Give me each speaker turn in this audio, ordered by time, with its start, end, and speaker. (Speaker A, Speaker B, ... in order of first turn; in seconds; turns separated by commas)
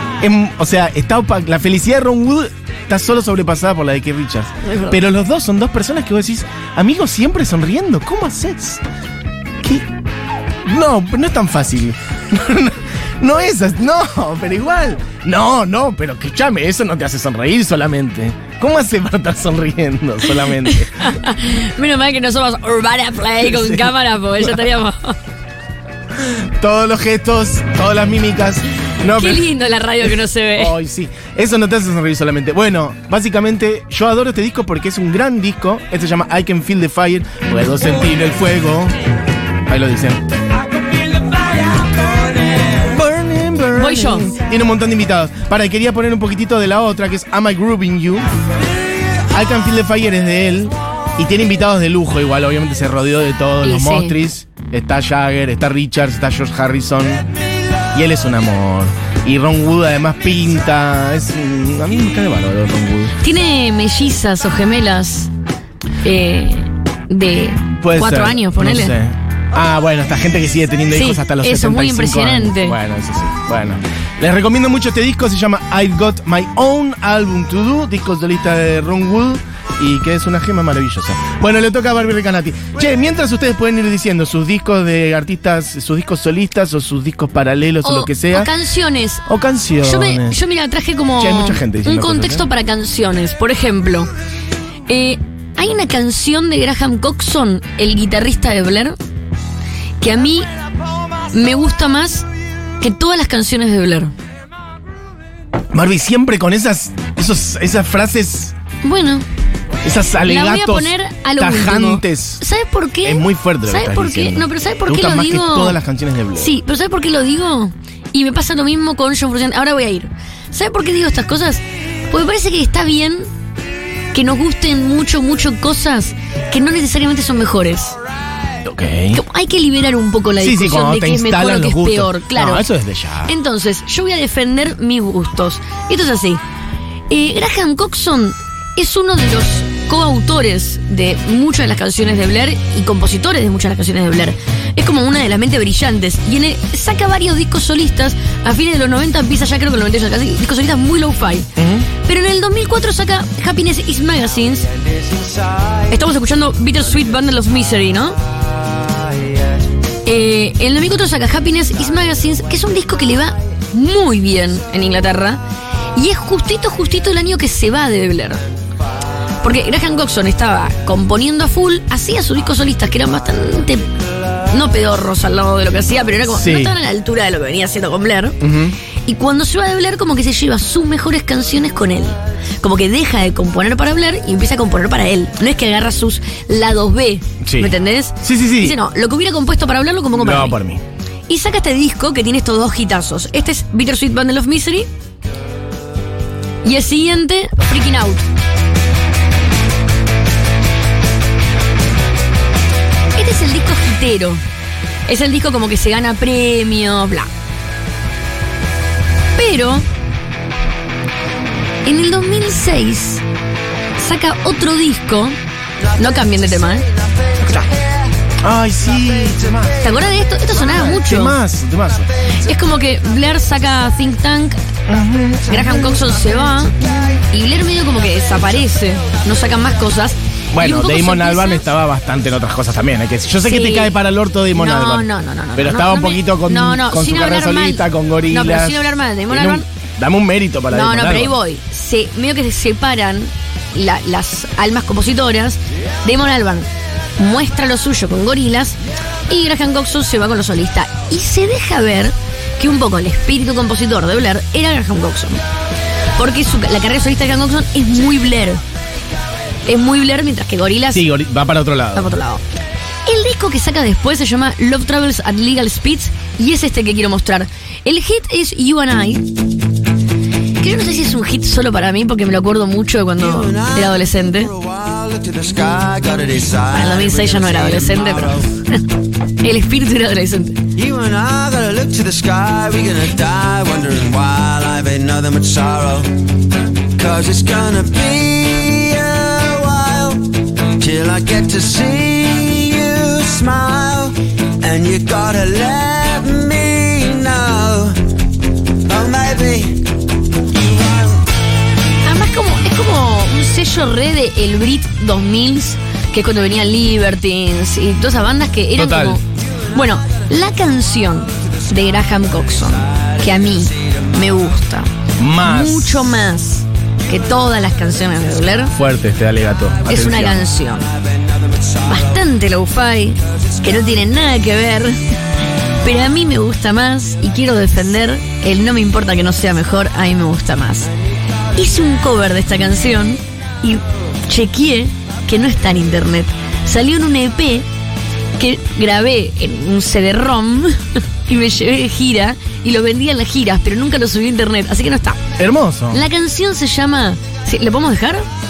Speaker A: 0.2-8.8, Speaker B: 4.6-5.0, Speaker A: 9.6-9.9, Speaker A: 10.6-21.1, Speaker B: 20.5-25.2, Speaker A: 23.4-24.7, Speaker A: 26.2-29.5, Speaker B: 29.1-30.7, Speaker A: 30.5-38.9, Speaker A: 39.7-40.2, Speaker A: 42.7-48.3, Speaker B: 43.8-44.3, Speaker A: 49.3-57.3, Speaker B: 53.6-54.1, Speaker A: 57.9-63.1, Speaker B: 63.2-65.3, Speaker B: 66.0-68.9, Speaker A: 67.8-88.5, Speaker B: 70.9-72.8, Speaker B: 87.8-89.2, Speaker A: 89.2-90.4, Speaker B: 89.8-94.1, Speaker A: 91.2-92.5, Speaker B: 94.9-99.0, Speaker B: 100.0-100.5, Speaker B: 101.3-102.2, Speaker B: 102.8-104.1, Speaker A: 105.7-108.5, Speaker B: 108.8-109.2, Speaker A: 109.8-112.4, Speaker B: 110.2-115.8, Speaker A: 113.0-116.5, Speaker B: 116.4-123.3, Speaker B: 124.1-128.0, Speaker A: 128.6-129.2, Speaker B: 129.1-132.6, Speaker A: 130.4-133.3, Speaker B: 133.2-136.4, Speaker B: 137.1-151.5, Speaker A: 151.6-151.9, Speaker B: 152.0-154.7, Speaker C: 154.8-155.8, Speaker B: 155.9-158.2, Speaker B: 160.0-165.4, Speaker B: 165.9-168.4, Speaker B: 169.4-173.9, Speaker B: 174.5-178.4, Speaker A: 176.3-176.7, Speaker A: 178.4-178.8, Speaker B: 179.1-190.6, Speaker A: 187.4-188.8, Speaker A: 190.1-190.8, Speaker B: 191.3-194.9, Speaker B: 196.6-198.2, Speaker B: 203.1-204.4, Speaker B: 205.1-207.3, Speaker B: 209.3-209.8, Speaker B: 211.8-213.2, Speaker B: 214.0-215.4, Speaker B: 215.9-216.8, Speaker A: 218.4-219.8, Speaker B: 219.8-221.4, Speaker A: 220.6-222.1, Speaker B: 222.4-224.6, Speaker A: 224.9-226.1, Speaker B: 225.5-226.7, Speaker B: 227.3-231.6, Speaker A: 230.5-241.3, Speaker B: 233.4-234.0, Speaker B: 234.5-239.7, Speaker B: 240.7-248.8, Speaker B: 249.3-255.4, Speaker B: 256.1-258.6, Speaker B: 259.6-261.0, Speaker A: 260.9-262.1, Speaker B: 261.9-262.4, Speaker B: 263.1-269.2, Speaker B: 270.6-274.5, Speaker C: 273.2-278.5, Speaker B: 276.7-278.8, Speaker B: 279.4-280.6, Speaker C: 280.8-286.1, Speaker C: 287.0-290.2, Speaker C: 290.8-297.9, Speaker C: 298.9-299.8, Speaker C: 300.5-301.2, Speaker B: 302.0-314.9, Speaker A: 308.8-309.2, Speaker A: 315.2-316.0, Speaker B: 315.4-318.7, Speaker A: 318.7-320.5, Speaker B: 319.8-320.9, Speaker B: 321.9-325.0, Speaker B: 325.8-330.9, Speaker B: 331.5-337.6, Speaker B: 338.4-345.2, Speaker A: 345.4-346.0, Speaker B: 345.9-348.2